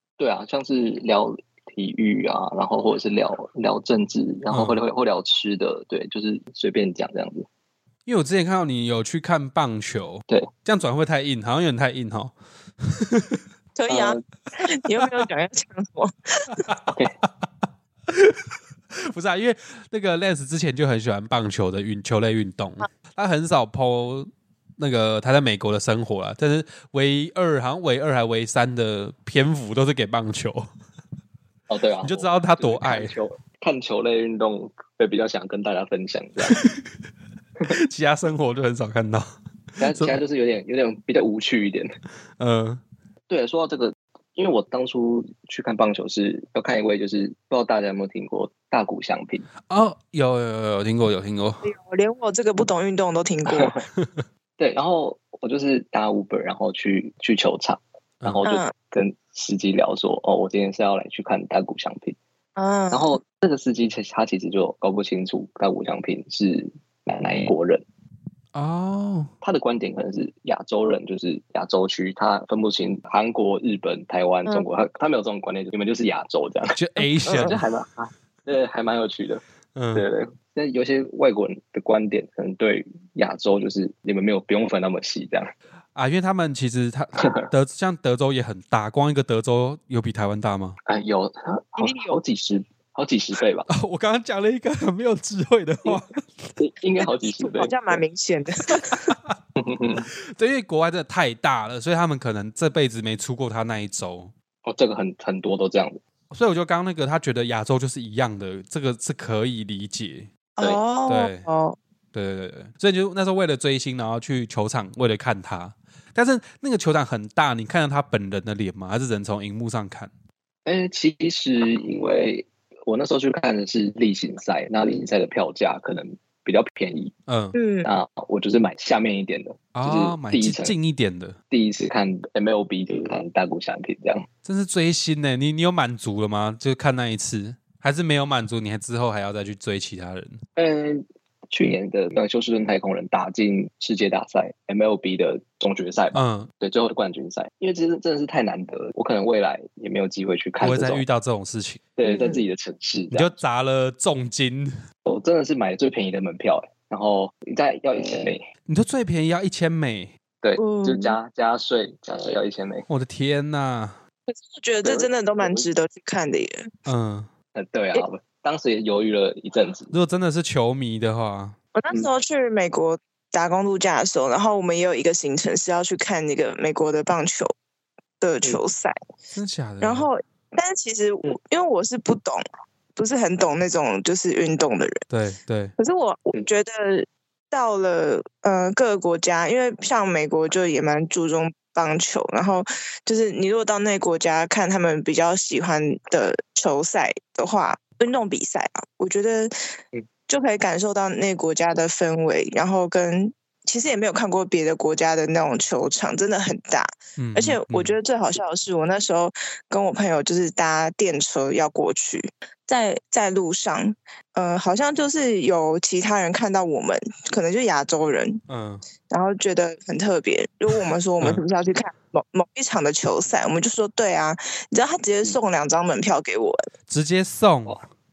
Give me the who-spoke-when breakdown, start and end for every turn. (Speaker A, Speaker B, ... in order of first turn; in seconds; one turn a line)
Speaker A: 0.2-7.5
Speaker B: 4.5-4.8
Speaker B: 8.1-13.4
Speaker C: 13.8-16.7
Speaker A: 13.9-14.2
Speaker B: 16.5-16.9
Speaker B: 18.1-30.7
Speaker A: 31.7-36.6
Speaker B: 32.0-33.2
Speaker B: 36.5-36.8
Speaker B: 37.7-39.3
Speaker A: 39.8-41.9
Speaker B: 39.9-40.2
Speaker B: 42.4-42.8
Speaker A: 43.3-49.5
Speaker B: 49.7-51.7
Speaker C: 51.6-53.7
Speaker A: 53.5-53.8
Speaker A: 54.6-62.2
Speaker C: 58.5-58.7
Speaker C: 62.6-63.2
Speaker A: 62.9-67.8
Speaker B: 68.5-69.3
Speaker A: 69.4-76.8
Speaker B: 76.8-77.6
Speaker C: 77.2-77.6
Speaker A: 77.3-85.5
Speaker B: 79.8-80.0
Speaker B: 86.0-90.8
Speaker A: 87.2-87.5
Speaker A: 90.9-93.7
Speaker C: 91.8-92.2
Speaker B: 93.7-96.1
Speaker A: 96.6-98.0
Speaker C: 97.0-99.2
Speaker B: 98.9-99.3
Speaker A: 99.6-100.1
Speaker B: 100.2-104.3
Speaker A: 104.7-106.0
Speaker B: 106.3-110.3
Speaker C: 110.6-111.8
Speaker B: 111.1-111.5
Speaker B: 112.1-120.1
Speaker A: 120.7-127.1
Speaker B: 127.3-127.5
Speaker C: 127.5-127.9
Speaker A: 127.8-130.8
Speaker B: 129.8-131.4
Speaker A: 131.5-134.3
Speaker B: 134.4-140.4
Speaker A: 140.6-151.0
Speaker B: 146.1-146.5
Speaker B: 150.6-151.8
Speaker A: 152.0-153.3
Speaker C: 152.1-152.4
Speaker B: 153.1-154.7
Speaker A: 155.1-158.4
Speaker B: 158.7-160.1
Speaker A: 160.4-162.9
Speaker C: 160.6-161.2
Speaker B: 162.9-164.0
Speaker C: 164.3-166.7
Speaker A: 164.8-165.7
Speaker B: 166.9-167.3
Speaker A: 167.6-169.9
Speaker B: 169.9-171.6
Speaker C: 171.8-177.5
Speaker C: 178.2-178.9
Speaker B: 179.3-180.1
Speaker C: 179.8-182.4
Speaker C: 183.0-185.0
Speaker B: 185.1-185.7
Speaker C: 185.8-199.5
Speaker C: 200.3-218.4
Speaker B: 207.2-208.0
Speaker B: 218.5-218.8
Speaker C: 219.1-226.7
Speaker B: 226.9-227.8